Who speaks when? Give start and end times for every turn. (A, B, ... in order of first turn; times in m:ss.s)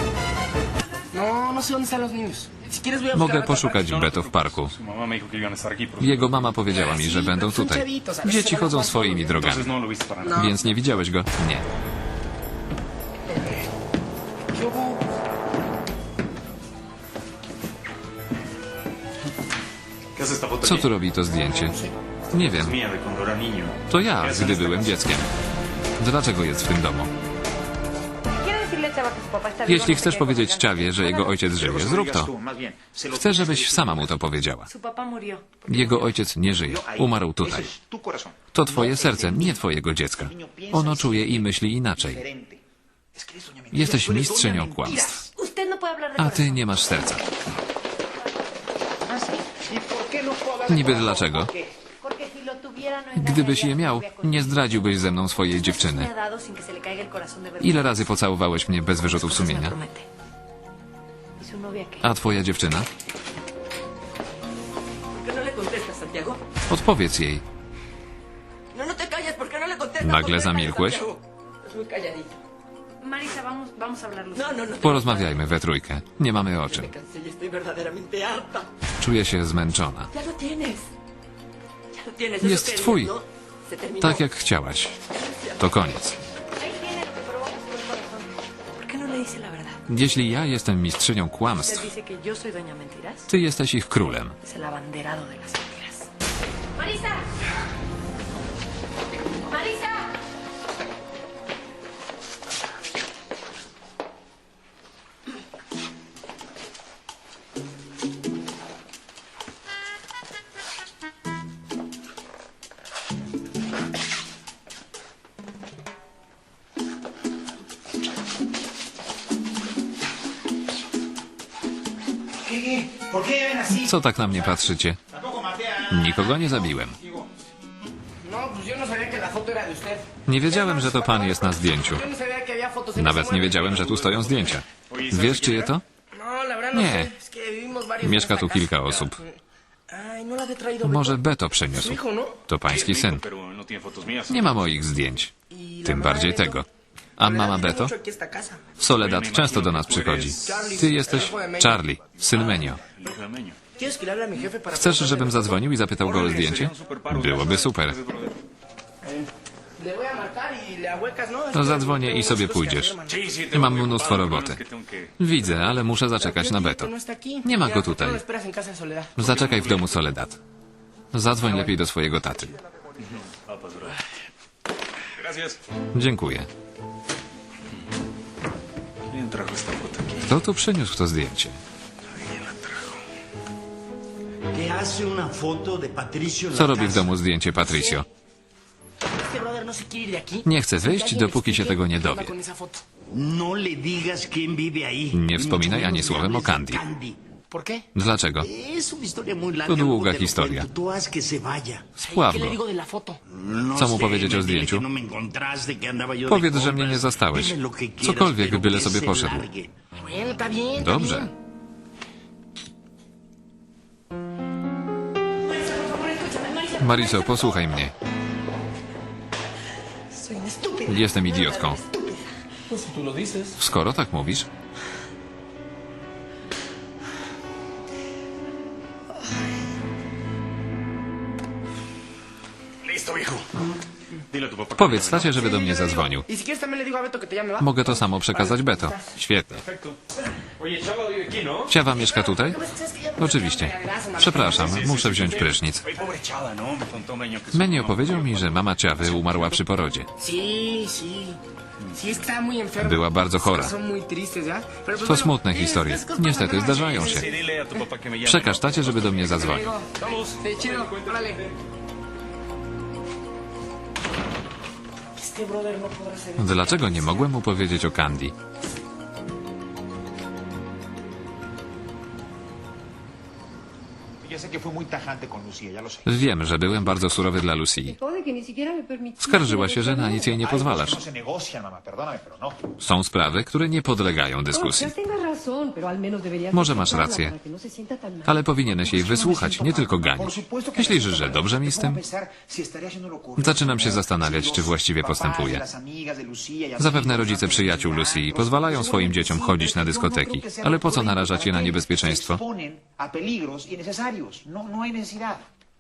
0:01.1-0:03.7 A
0:03.1-0:04.7 B
0:03.7-0:06.4 C
0:06.0-0:09.7 B
0:06.7-0:09.3 A
0:09.3-0:10.4 C
0:10.2-0:10.6 A
0:10.3-0:11.6 B
0:14.5-0:15.0 A
0:20.1-0:20.9 C
0:20.6-0:21.8 B
0:21.4-0:21.9 A
0:22.3-0:22.8 B
0:22.4-0:25.0 C
0:23.9-0:25.3 B
0:26.0-0:27.1 B
0:28.3-0:31.4 D
0:29.6-0:32.3 B
0:31.6-0:34.2 E
0:33.1-0:34.7 B
0:34.6-0:36.0 D
0:35.7-0:37.7 B
0:36.4-0:39.6 E
0:38.5-0:42.2 B
0:40.2-0:42.6 E
0:43.1-0:45.2 E
0:43.7-0:45.2 B
0:45.3-0:47.0 D
0:46.2-0:47.2 B
0:49.0-0:51.7 E
0:50.7-0:51.5 B
0:52.0-0:58.2 D
0:53.2-0:56.1 B
0:57.6-0:59.8 B
0:58.9-1:00.0 D
1:01.4-1:02.1 D
1:02.0-1:02.9 B
1:05.1-1:06.4 F
1:06.7-1:07.4 B
1:08.7-1:12.4 F
1:10.0-1:11.1 B
1:13.0-1:14.7 D
1:14.3-1:15.4 F
1:14.8-1:16.9 B
1:16.6-1:18.7 F
1:19.0-1:20.1 B
1:20.1-1:20.9 F
1:21.9-1:24.2 F
1:22.4-1:23.2 B
1:24.0-1:25.0 B
1:25.2-1:25.6 F
1:25.6-1:26.2 B
1:26.6-1:29.8 D
1:29.9-1:31.9 B
1:31.6-1:33.3 D
1:33.3-1:34.3 B
1:34.4-1:36.1 D
1:36.8-1:37.2 D
1:39.4-1:40.1 D
2:02.4-2:03.9 E
2:03.8-2:05.0 B
2:05.1-2:07.3 E
2:05.9-2:07.0 B
2:08.2-2:13.8 A
2:10.3-2:12.0 B
2:12.9-2:15.8 B
2:13.6-2:15.8 C
2:16.1-2:19.4 A
2:16.7-2:17.1 B
2:18.0-2:19.2 B
2:19.9-2:21.2 A
2:20.8-2:23.2 B
2:21.7-2:22.4 A
2:22.7-2:24.6 C
2:24.3-2:25.3 B
2:25.5-2:26.6 A
2:25.8-2:26.6 B
2:27.2-2:27.9 B
2:27.2-2:28.6 A
2:28.8-2:32.8 B
2:28.8-2:31.0 C
2:30.4-2:31.8 A
2:32.2-2:33.6 C
2:33.7-2:35.6 A
2:34.7-2:38.0 B
2:36.0-2:38.4 C
2:39.8-2:43.2 A
2:41.5-2:42.9 B
2:43.0-2:45.3 C
2:43.5-2:44.6 B
2:45.2-2:46.9 B
2:46.1-2:49.1 A
2:47.4-2:48.2 B
2:49.2-2:50.0 C
2:49.2-2:50.4 B
2:51.1-2:52.5 B
2:51.4-2:51.7 A
2:53.0-2:54.1 C
2:55.2-2:55.6 C
2:55.9-2:56.5 B
2:59.1-3:00.4 C
3:00.2-3:01.6 B
3:02.1-3:03.0 C
3:04.5-3:07.1 G
3:06.5-3:08.0 B
3:07.6-3:08.0 A
3:09.2-3:12.8 A
3:10.4-3:12.3 B
3:13.1-3:17.2 G
3:15.1-3:16.8 B
3:17.5-3:17.8 A
3:17.9-3:18.5 B
3:18.4-3:21.9 G
3:19.6-3:20.7 B
3:22.0-3:22.6 B
3:22.0-3:23.2 A
3:23.3-3:29.7 G
3:23.7-3:24.8 B
3:26.2-3:29.5 B
3:30.0-3:31.3 A
3:30.8-3:31.3 B
3:35.6-3:37.5 D
3:36.8-3:37.9 B
3:40.3-3:42.0 D
3:40.5-3:40.8 A
3:40.8-3:41.8 B
3:41.4-3:41.8 F
3:42.7-3:43.6 A
3:43.6-3:44.5 B
3:52.8-3:53.5 C
3:54.3-3:55.8 C
3:54.7-3:56.2 B
3:55.4-3:59.0 A
3:57.6-3:59.6 B
3:59.5-4:00.0 C
4:00.6-4:01.8 C
4:01.7-4:02.6 B
4:01.8-4:04.9 A
4:03.2-4:05.8 B
4:04.5-4:09.6 C
4:07.5-4:10.1 B
4:10.2-4:11.4 A
4:12.0-4:17.3 A
4:12.8-4:13.7 B
4:15.0-4:17.3 B
4:16.6-4:21.5 C
4:18.2-4:19.6 B
4:19.4-4:21.4 A
4:25.2-4:27.3 A
4:26.4-4:28.3 B
4:34.2-4:36.1 E
4:36.0-4:38.0 B
4:38.9-4:40.2 F
4:39.2-4:41.0 B
4:40.4-4:42.6 E
4:42.8-4:45.0 B
4:44.5-4:45.2 F
4:46.5-4:47.4 B
4:46.5-4:48.2 F
4:48.2-4:52.0 B
4:48.6-5:05.4 E
4:53.4-4:55.6 B
4:56.8-5:02.4 B